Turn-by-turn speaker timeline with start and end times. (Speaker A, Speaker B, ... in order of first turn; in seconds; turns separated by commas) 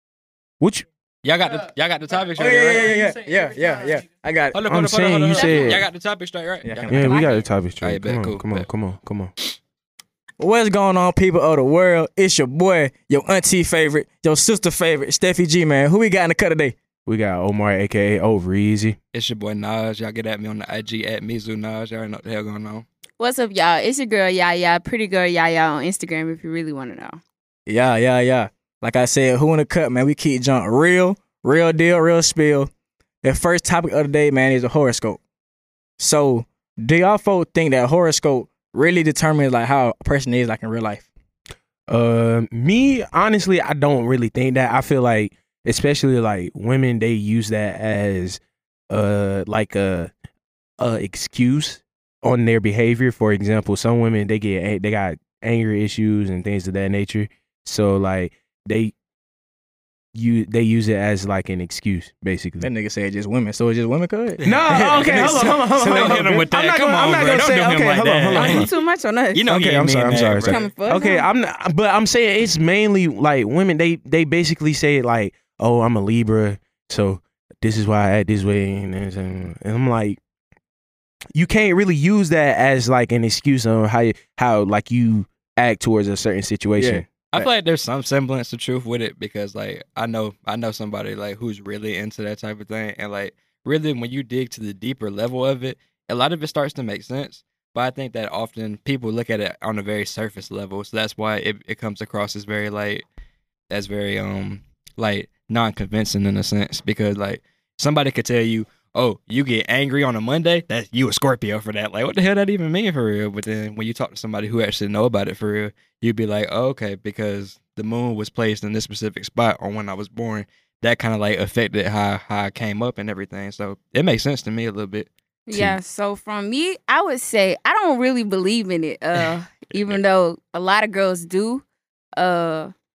Speaker A: 0.6-0.8, Speaker B: 1.2-3.2, Speaker C: 2.3-4.6, Speaker B: 4.5-8.7, Speaker A: 4.6-5.8, Speaker D: 5.3-5.8, Speaker C: 6.6-7.4, Speaker A: 6.9-9.3, Speaker C: 10.4-16.7, Speaker A: 17.1-19.0, Speaker B: 19.1-22.8, Speaker D: 23.2-27.2, Speaker C: 27.7-32.7, Speaker C: 33.2-35.2, Speaker C: 36.0-41.0, Speaker A: 41.9-50.1, Speaker A: 50.8-58.9, Speaker A: 60.1-62.7, Speaker C: 62.6-66.2, Speaker A: 64.4-68.7, Speaker B: 64.4-68.7, Speaker D: 68.3-69.4, Speaker B: 69.3-70.6, Speaker A: 69.5-80.2, Speaker D: 70.3-71.2, Speaker A: 81.3-87.4, Speaker C: 86.8-87.0, Speaker B: 87.2-103.0, Speaker B: 103.7-125.8, Speaker D: 125.5-131.6, Speaker D: 132.1-132.7